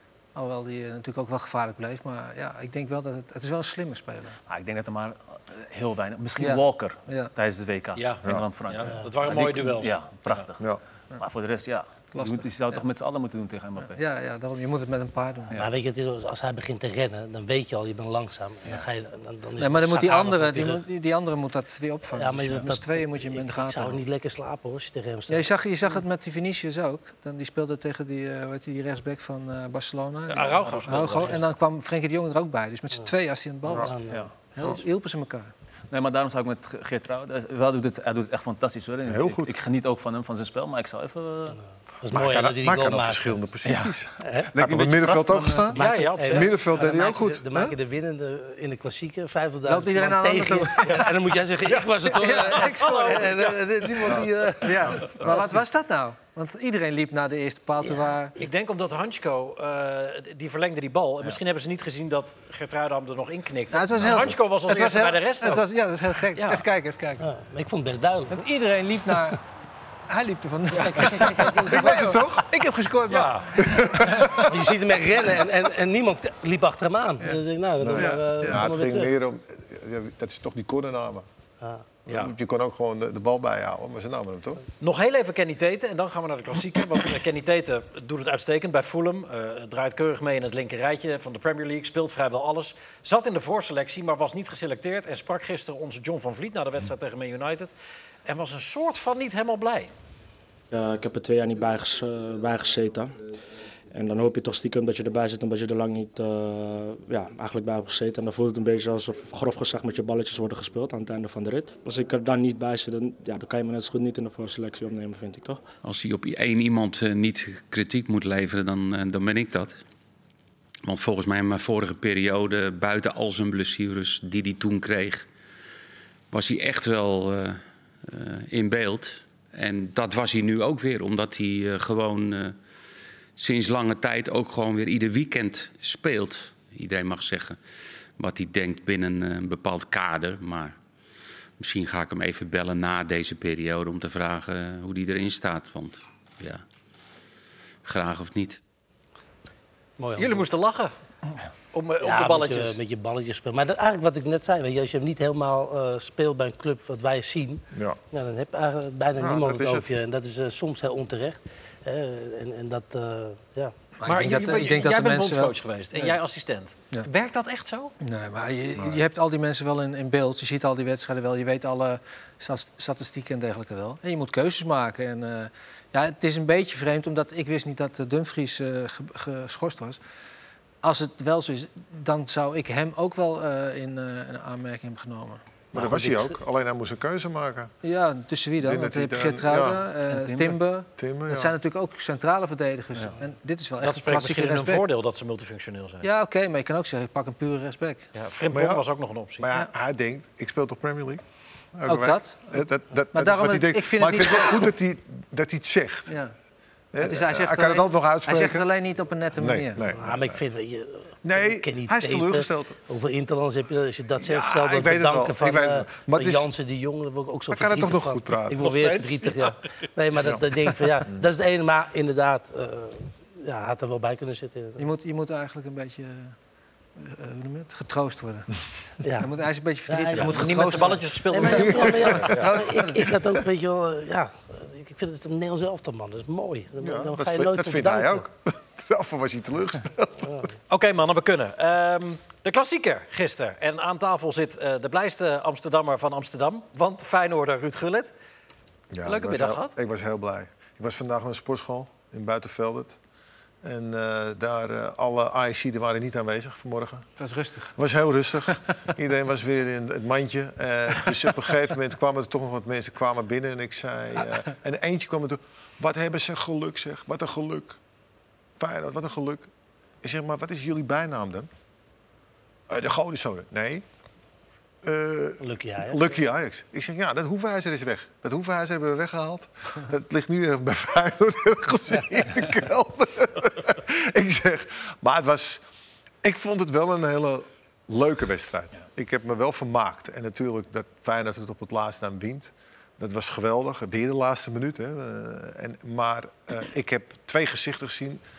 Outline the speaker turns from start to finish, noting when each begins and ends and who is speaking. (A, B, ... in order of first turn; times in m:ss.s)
0:00.4-0:04.4 A
0:04.5-0:14.0 B
0:06.4-0:07.3 A
0:08.0-0:10.4 C
0:12.2-0:12.8 A
0:13.8-0:15.6 A
0:15.6-0:20.8 D
0:19.6-0:24.0 A
0:22.1-0:26.0 D
0:25.3-0:34.0 A
0:30.3-0:31.5 C
0:33.7-0:33.9 E
0:33.7-0:34.2 D
0:34.5-0:35.5 A
0:35.9-0:41.6 B
0:39.1-0:39.5 E
0:42.0-0:43.4 D
0:42.1-0:47.8 E
0:43.6-0:44.0 B
0:44.2-0:44.5 D
0:44.6-0:45.7 B
0:45.7-0:55.4 D
0:45.8-0:46.5 C
0:49.6-0:51.2 A
0:52.0-0:54.0 A
0:52.8-0:53.3 C
0:54.6-0:58.4 A
0:58.4-1:05.6 C
1:03.7-1:07.2 A
1:06.4-1:06.6 C
1:07.2-1:08.4 D
1:08.3-1:09.4 A
1:10.1-1:14.5 A
1:10.7-1:11.0 C
1:11.0-1:11.8 D
1:11.7-1:12.5 E
1:13.1-1:13.6 C
1:13.6-1:14.5 E
1:14.5-1:19.1 D
1:17.8-1:21.3 E
1:17.9-1:18.2 A
1:22.1-1:24.6 E
1:22.1-1:22.3 C
1:24.8-1:37.7 C
1:38.3-1:39.9 C
1:40.7-1:43.1 F
1:43.9-1:55.6 F
1:55.8-1:59.8 G
2:00.8-2:05.3 G
2:06.3-2:12.6 G
2:13.4-2:17.6 G
2:18.2-2:20.8 G
2:21.6-2:26.6 G
2:27.8-2:28.6 G
2:30.0-2:30.4 D
2:30.2-2:30.9 C
2:31.7-2:32.8 C
2:32.0-2:43.8 D
2:37.7-2:38.0 E
2:39.2-2:40.0 E
2:44.0-2:46.2 A
2:44.0-2:47.9 C
2:48.0-3:00.0 A
3:00.8-3:05.4 A
3:05.7-3:07.7 E
3:05.8-3:06.3 D
3:07.8-3:14.8 A
3:08.6-3:09.9 E
3:10.1-3:10.6 B
3:11.0-3:11.5 E
3:13.8-3:16.1 C
3:16.0-3:18.1 A
3:18.2-3:19.5 C
3:18.5-3:18.8 E
3:19.4-3:21.2 E
3:21.8-3:26.1 E
3:21.9-3:22.6 A
3:23.1-3:24.7 A
3:26.1-3:26.3 A
3:26.9-3:28.7 E
3:27.0-3:29.9 A
3:29.4-3:30.4 E
3:30.0-3:44.9 D
3:31.2-3:32.8 E
3:34.2-3:36.5 E
3:37.5-3:38.7 E
3:38.6-3:39.5 C
3:44.8-3:46.4 A
3:47.0-3:48.5 A
3:49.0-3:49.3 D
3:49.2-3:53.1 A
3:49.9-3:58.2 D
3:50.1-3:52.5 C
3:51.6-3:52.3 E
3:56.8-4:00.4 E
4:00.7-4:08.1 C
4:08.9-4:13.0 E
4:09.0-4:09.8 C
4:13.6-4:17.1 E
4:17.2-4:17.7 A
4:17.8-4:27.8 E
4:28.6-4:29.5 E
4:30.0-4:31.5 E
4:32.7-4:33.8 E
4:34.8-4:45.6 E
4:35.4-4:36.1 D
4:46.2-4:58.2 E